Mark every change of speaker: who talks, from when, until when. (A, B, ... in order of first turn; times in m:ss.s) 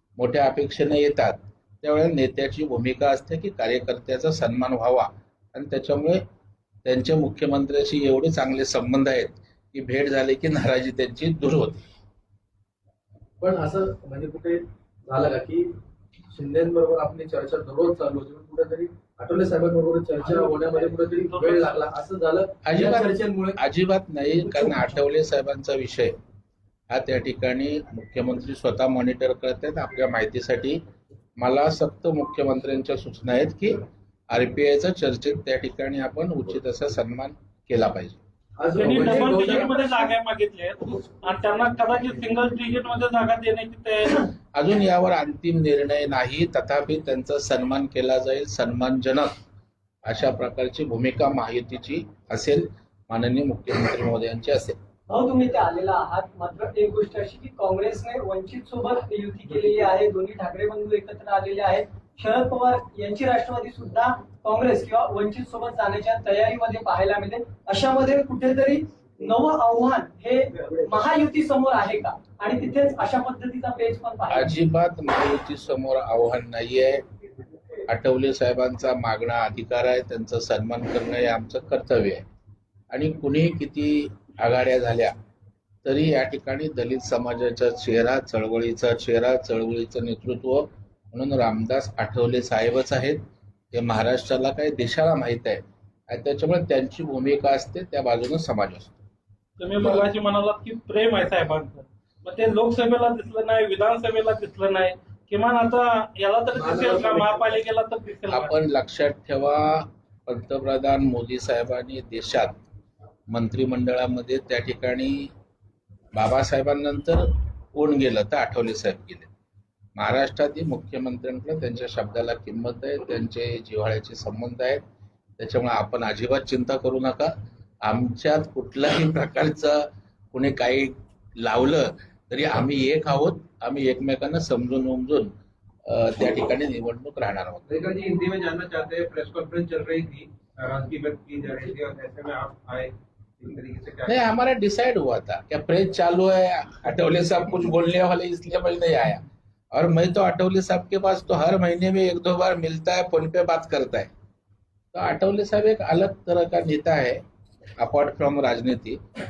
0:00.2-0:06.2 A
0:06.8-0:11.8 A
0:13.4-0:15.7 B
0:16.3-0:23.6 B
0:20.2-0:21.9 C
0:22.6-0:26.1 A
0:26.9-0:30.8 A
0:31.4-0:38.2 A
0:38.6-0:40.1 B
0:38.8-0:44.3 C
0:39.2-0:39.6 D
0:44.6-0:49.3 A
0:50.1-0:54.8 A
0:55.1-1:14.5 D
1:14.3-1:17.0 A
1:17.9-1:22.2 A
1:22.9-1:25.1 A
1:25.8-1:33.2 A
1:33.7-1:39.0 A
1:39.6-1:48.5 C
1:39.8-1:40.1 A
1:46.5-1:47.6 B
1:48.3-1:52.6 A
1:53.3-1:55.3 A
1:56.2-1:59.3 A
2:00.0-2:04.8 A
2:05.4-2:07.3 A
2:07.8-2:15.3 A
2:15.8-2:17.6 A
2:17.7-2:24.2 E
2:24.1-2:34.1 A
2:34.9-2:37.2 A
2:37.8-2:39.0 A